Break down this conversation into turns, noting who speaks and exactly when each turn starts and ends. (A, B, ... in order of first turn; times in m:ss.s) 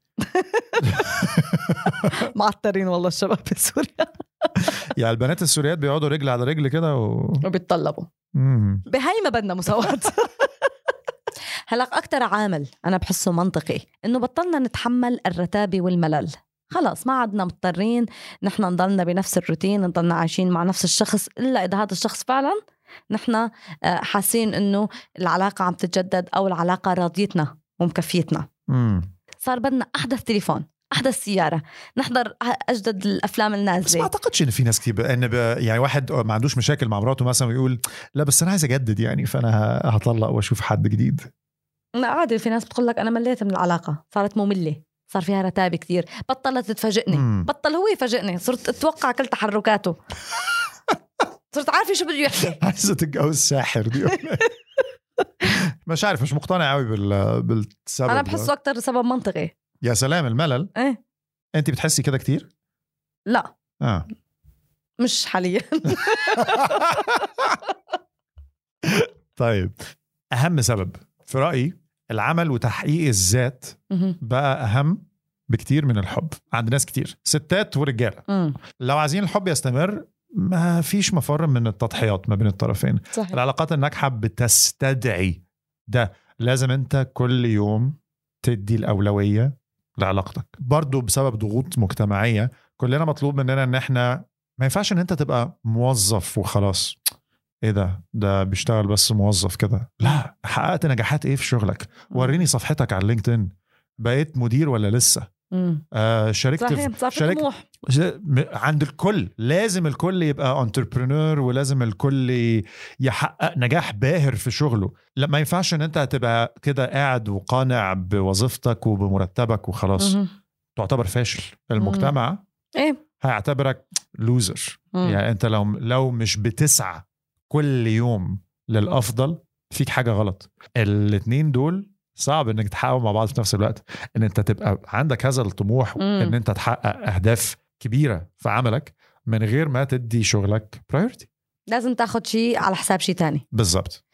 0:00.2-0:01.1 A
0:00.8-0:02.1 B
0:01.9-0:04.7 A
0:05.0-0:07.4 B
0:07.4-0:08.1 A
0:08.4-0:08.8 B
0:08.9-0:10.5 A
0:11.7-0:22.6 A
0:23.1-0:28.5 A
0:28.7-0:29.1 B
0:29.4-0:34.1 A
0:33.8-0:41.3 B
0:42.0-0:50.0 A
0:47.1-0:47.5 B
0:51.5-0:52.6 A
0:52.5-0:54.5 B
0:55.9-0:58.5 B
0:58.1-0:59.5 A
0:59.8-1:00.7 B
1:01.6-1:02.5 B
1:03.8-1:04.1 B
1:05.0-1:07.0 A
1:06.4-1:07.6 B
1:08.8-1:09.8 B
1:10.4-1:18.3 B
1:13.9-1:14.2 A
1:18.3-1:18.6 A
1:18.8-1:37.0 B
1:23.1-1:23.4 A
1:37.6-1:43.5 B
1:42.1-1:42.4 A
1:44.0-1:45.3 B
1:45.5-1:45.8 A
1:45.9-2:00.2 B
1:46.6-1:47.6 A
2:00.0-2:00.3 A
2:00.8-2:02.4 B
2:01.8-2:02.1 A
2:03.2-2:21.3 B
2:04.9-2:05.2 A
2:16.0-2:16.4 A
2:21.7-2:23.4 A
2:23.5-2:24.0 B